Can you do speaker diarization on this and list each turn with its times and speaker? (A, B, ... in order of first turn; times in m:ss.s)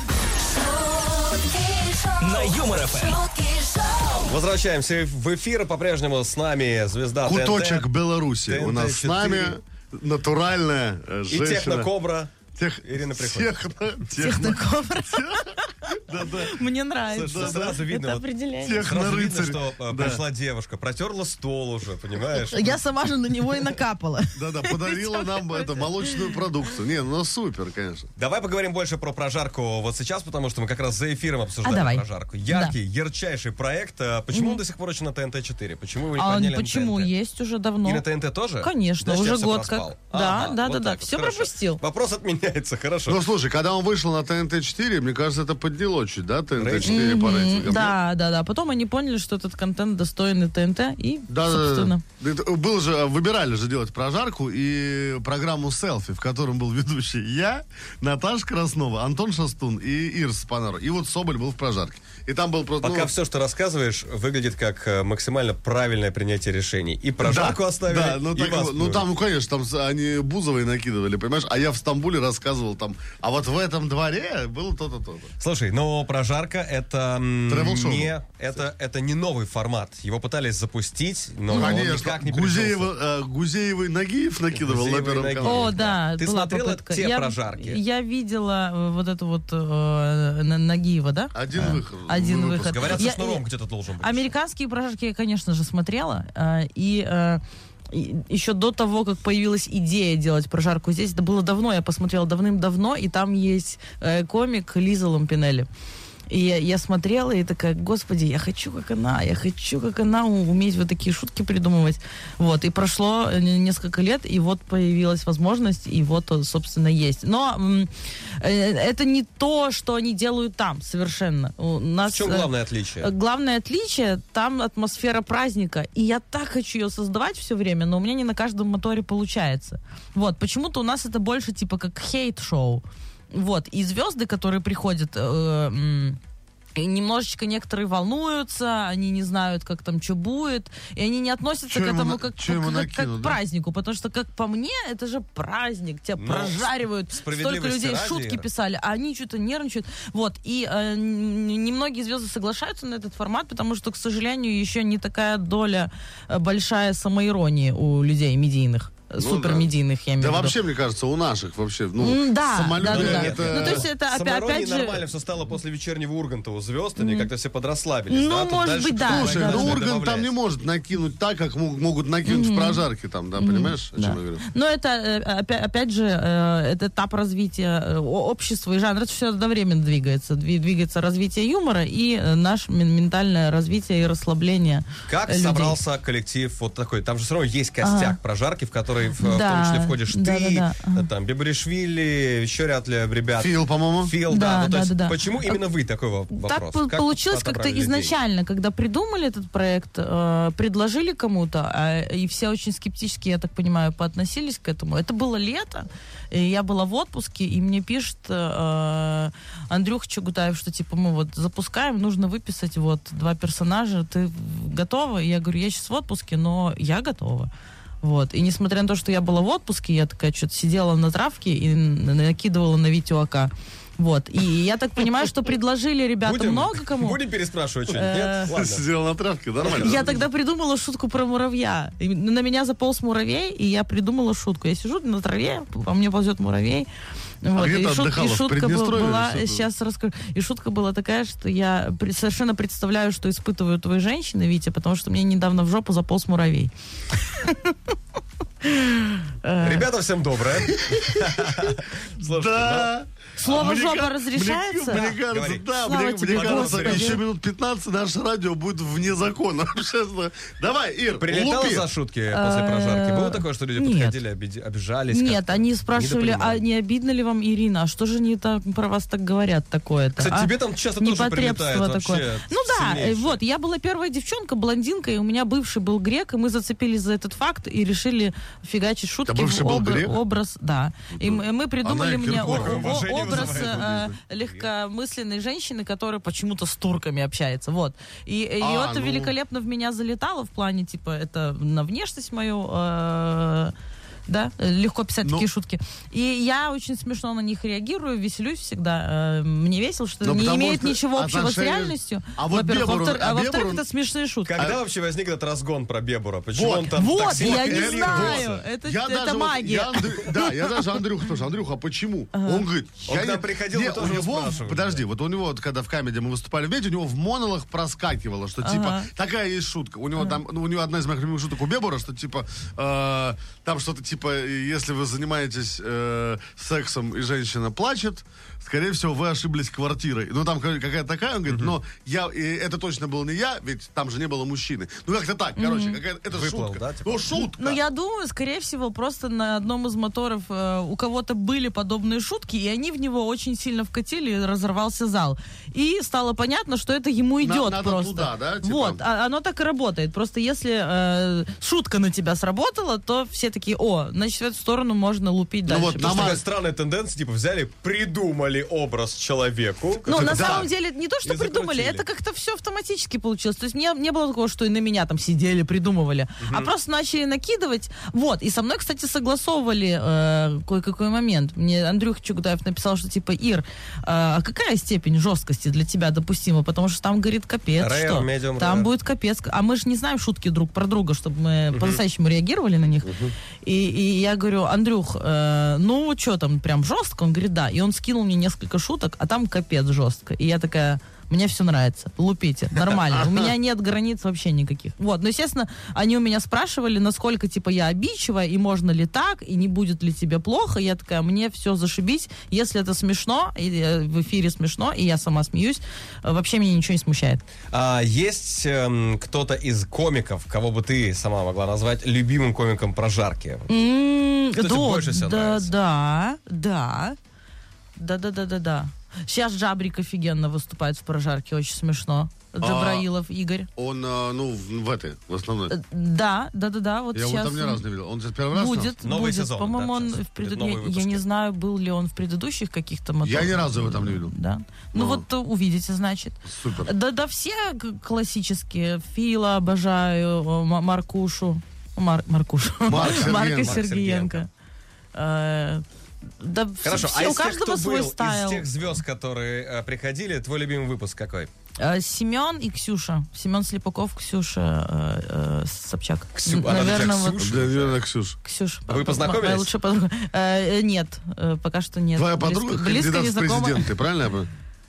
0:00.4-0:04.3 A
0:04.3-0:07.9 B
0:07.2-0:11.9 C
0:08.4-0:09.5 B
0:11.3-0:13.5 B
0:12.5-0:16.6 C
0:14.2-0:18.9 D
0:17.1-0:18.2 B
0:17.2-0:17.8 C
0:18.6-0:20.2 C
0:18.8-0:22.8 B
0:22.4-0:26.3 D
0:24.4-0:28.1 C
0:28.2-0:37.1 B
0:31.6-0:32.7 D
0:34.3-0:34.6 D
0:36.2-0:38.0 D
0:37.8-0:43.2 B
0:38.6-0:41.8 D
0:43.1-0:48.0 C
0:46.6-0:47.1 B
0:46.8-0:52.0 D
0:51.3-1:03.1 C
1:02.8-1:09.0 B
1:07.2-1:15.3 C
1:15.4-1:22.9 B
1:17.5-1:18.1 C
1:21.5-1:21.8 D
1:21.5-1:25.7 C
1:24.5-1:27.8 B
1:25.4-1:33.4 D
1:31.3-1:33.0 C
1:32.7-1:34.3 B
1:34.0-1:45.7 D
1:46.3-2:02.5 D
2:02.1-2:03.1 B
2:03.0-2:16.2 D
2:16.8-2:40.5 D
2:21.7-2:23.4 C
2:26.2-2:28.4 B
2:39.2-2:43.9 C
2:42.0-2:45.0 D
2:42.8-2:50.3 B
2:47.0-2:47.3 D
2:48.1-2:49.8 D
2:49.0-2:54.4 C
2:52.2-2:52.8 D
2:53.4-3:05.8 D
3:05.1-3:18.1 B
3:07.8-3:08.2 D
3:09.2-3:11.1 D
3:13.4-3:14.1 C
3:14.3-3:15.6 D
3:16.3-3:37.5 D
3:38.0-3:47.2 D
3:46.2-3:48.8 B
3:47.9-3:48.5 D
3:48.5-3:50.2 C
3:49.6-3:50.2 B
3:49.6-3:56.9 D
3:57.4-4:07.8 D
3:57.6-3:59.7 C
4:08.6-4:09.9 D
4:09.6-4:12.9 B
4:10.7-4:21.9 C
4:13.4-4:15.1 D
4:14.9-4:15.7 B
4:15.8-4:17.2 D
4:16.3-4:17.2 B
4:21.2-4:26.6 B
4:22.3-4:24.2 D
4:25.1-4:53.7 D
4:30.2-4:33.4 B
4:39.2-4:40.2 C
4:41.1-4:44.2 C
4:42.3-4:44.7 B
4:48.6-4:49.3 C
4:54.3-5:04.5 D
5:00.2-5:03.8 C
5:04.4-5:08.6 B
5:06.5-5:37.8 C
5:06.9-5:10.8 D
5:12.3-5:12.6 D
5:13.1-5:15.0 B
5:18.6-5:19.1 D
5:31.5-5:31.7 B
5:35.6-5:36.0 D
5:36.3-5:37.3 B
5:37.3-5:56.4 D
5:47.4-5:49.0 C
5:55.6-5:56.4 C
5:56.0-6:00.7 B
6:00.0-6:23.1 D
6:00.2-6:00.7 C
6:01.2-6:02.0 B
6:06.4-6:06.7 B
6:17.8-6:18.9 B
6:21.7-6:22.0 B
6:23.0-6:23.3 C
6:23.6-6:47.4 D
6:47.7-6:53.7 B
6:53.7-6:57.2 D
6:54.6-6:55.7 B
6:58.0-7:03.7 D
7:02.6-7:03.1 C
7:03.8-7:05.7 C
7:05.7-7:07.8 D
7:07.1-7:08.9 C
7:08.5-7:24.5 D
7:09.0-7:11.2 B
7:13.2-7:14.3 C
7:14.9-7:15.2 C
7:16.4-7:16.9 C
7:22.9-7:23.8 C
7:22.9-7:24.4 B
7:25.1-7:25.8 D
7:26.4-7:28.7 D
7:26.8-7:31.5 B
7:31.8-7:37.4 D
7:36.3-7:38.0 B
7:37.4-7:38.4 C
7:38.4-7:43.9 D
7:38.9-7:39.7 B
7:42.2-7:44.5 C